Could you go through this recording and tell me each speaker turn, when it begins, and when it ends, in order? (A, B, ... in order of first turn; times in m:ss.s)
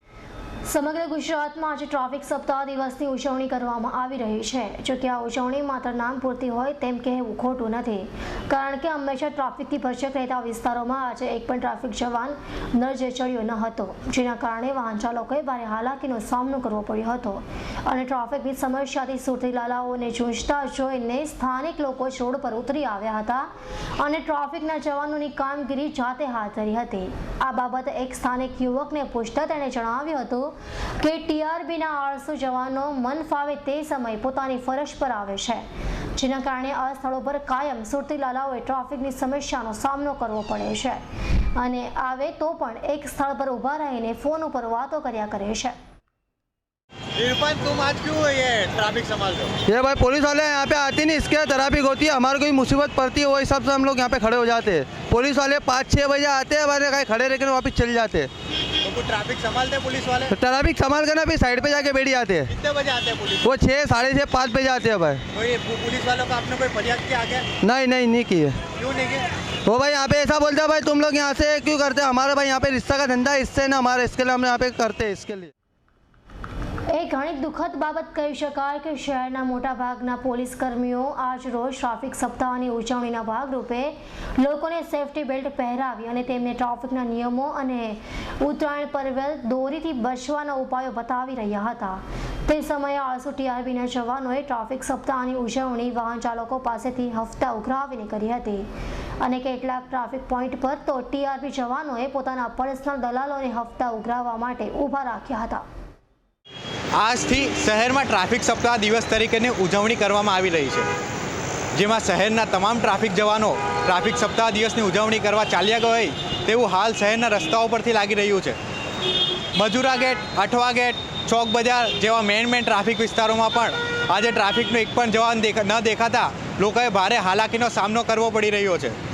0:00.6-0:41.0 A
0:41.6-0:45.8 A
0:47.2-0:49.6 B
0:49.7-0:58.3 C
0:58.8-1:00.3 B
1:00.3-1:02.5 C
1:02.5-1:03.5 B
1:03.4-1:05.2 C
1:05.3-1:07.5 B
1:07.6-1:08.6 C
1:08.8-1:09.3 B
1:09.7-1:15.5 C
1:16.9-1:38.7 A
1:39.2-1:45.6 A
1:47.0-1:50.9 B
1:51.8-1:58.6 B
1:59.6-2:09.0 B